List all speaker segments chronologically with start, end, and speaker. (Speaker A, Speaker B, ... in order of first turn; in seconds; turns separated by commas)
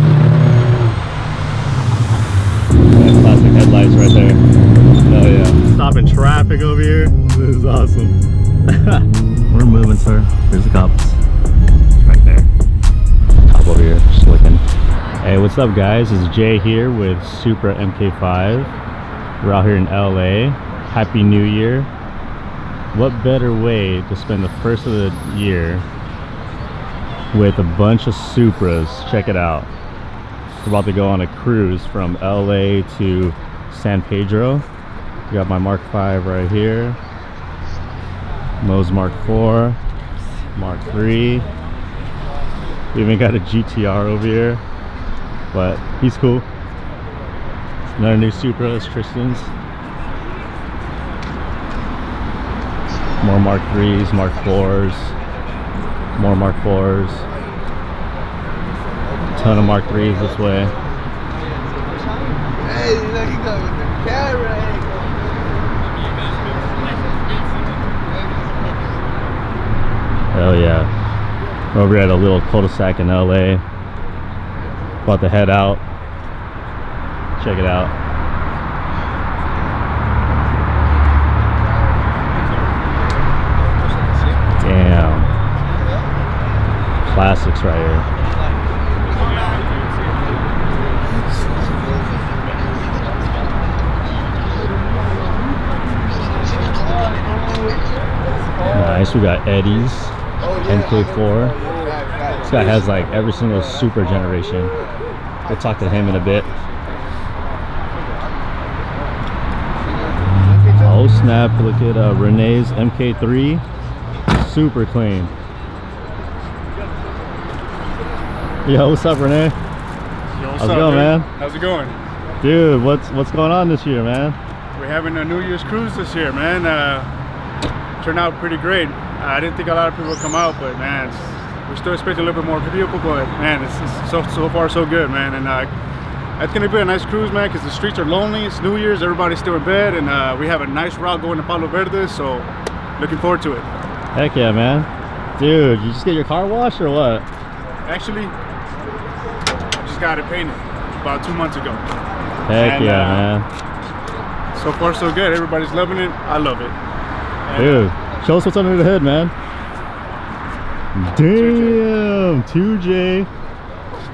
Speaker A: 2.9-4.4, Speaker A: 5.0-11.2, Speaker A: 12.0-12.5, Speaker A: 13.5-14.6, Speaker A: 15.2-18.7, Speaker A: 19.4-21.9, Speaker A: 22.9-25.9, Speaker A: 27.3-29.7, Speaker A: 30.6-34.6, Speaker A: 35.3-37.0, Speaker A: 38.6-39.8, Speaker A: 40.5-41.5, Speaker A: 42.9-44.6, Speaker A: 45.5-46.5, Speaker A: 48.0-49.5, Speaker A: 53.2-55.1, Speaker A: 56.2-57.3, Speaker A: 59.3-60.7, Speaker B: 62.4-65.1, Speaker B: 68.4-68.7, Speaker A: 70.3-70.9, Speaker A: 71.7-73.6, Speaker A: 75.0-75.8, Speaker A: 77.4-77.9, Speaker A: 84.6-85.3, Speaker A: 87.0-88.0, Speaker A: 98.7-101.6, Speaker B: 101.7-102.1, Speaker A: 102.5-104.7, Speaker A: 105.5-106.5, Speaker B: 109.9-111.1, Speaker A: 110.8-113.6, Speaker A: 114.3-115.3, Speaker A: 118.6-119.5, Speaker C: 120.3-122.0, Speaker A: 120.6-121.3, Speaker A: 122.4-124.4, Speaker C: 124.8-127.1, Speaker C: 128.0-135.7, Speaker C: 136.4-143.7, Speaker A: 144.2-147.2, Speaker C: 147.9-148.3, Speaker C: 149.8-151.8, Speaker A: 152.5-153.5, Speaker C: 152.6-153.3, Speaker C: 154.5-156.8, Speaker C: 157.4-157.9, Speaker A: 157.6-159.3, Speaker A: 160.9-163.3, Speaker C: 161.2-161.8